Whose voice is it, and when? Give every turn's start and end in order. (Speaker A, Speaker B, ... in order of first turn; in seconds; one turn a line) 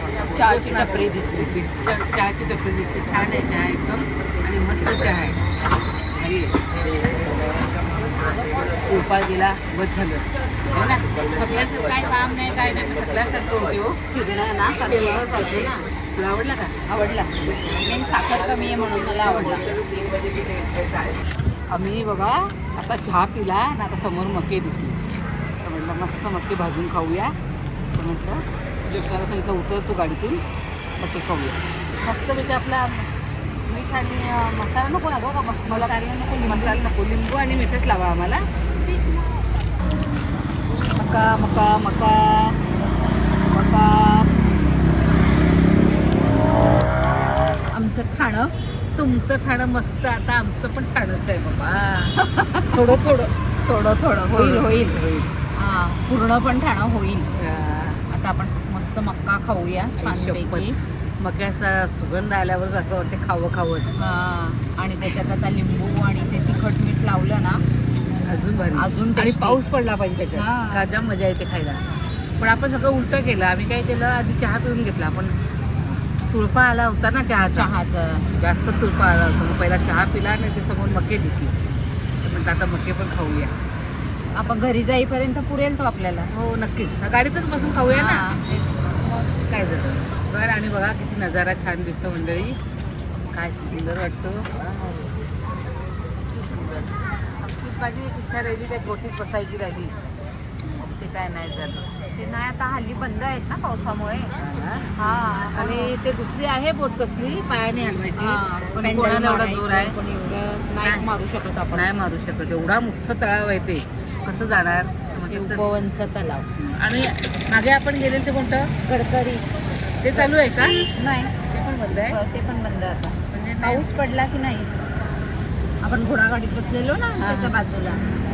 Speaker A: 0.3-5.4
Speaker B: 0.3-1.6
Speaker A: 6.1-6.6
Speaker A: 8.9-16.8
Speaker B: 14.2-15.8
Speaker B: 16.9-19.8
Speaker A: 21.7-25.0
Speaker A: 25.6-27.4
Speaker A: 27.9-30.4
Speaker A: 31.0-33.1
Speaker A: 33.6-39.2
Speaker B: 35.6-36.9
Speaker A: 41.0-42.6
Speaker A: 43.5-44.3
Speaker B: 47.7-48.5
Speaker A: 49.0-53.4
Speaker B: 52.2-53.0
Speaker B: 53.6-55.0
Speaker A: 54.3-55.3
Speaker B: 55.5-57.3
Speaker A: 57.4-58.0
Speaker B: 58.1-60.8
Speaker A: 60.0-60.7
Speaker A: 61.2-63.9
Speaker B: 64.0-67.6
Speaker A: 68.2-71.8
Speaker B: 68.7-69.6
Speaker B: 70.3-70.9
Speaker A: 72.4-77.7
Speaker B: 77.5-78.3
Speaker A: 78.3-81.6
Speaker A: 82.2-83.5
Speaker B: 84.3-86.3
Speaker A: 86.3-88.2
Speaker B: 87.9-89.1
Speaker A: 89.2-92.6
Speaker A: 93.3-95.1
Speaker A: 97.4-100.0
Speaker A: 100.8-101.9
Speaker B: 102.1-104.3
Speaker A: 104.3-104.9
Speaker B: 105.0-106.0
Speaker A: 105.5-110.0
Speaker B: 108.2-111.9
Speaker A: 110.8-111.1
Speaker A: 111.7-115.7
Speaker B: 115.3-116.5
Speaker A: 116.6-118.7
Speaker B: 118.8-119.5
Speaker A: 120.0-120.8
Speaker B: 120.1-121.3
Speaker A: 121.5-122.2
Speaker B: 121.9-124.9
Speaker A: 123.3-123.9
Speaker B: 125.8-128.1
Speaker A: 127.2-127.6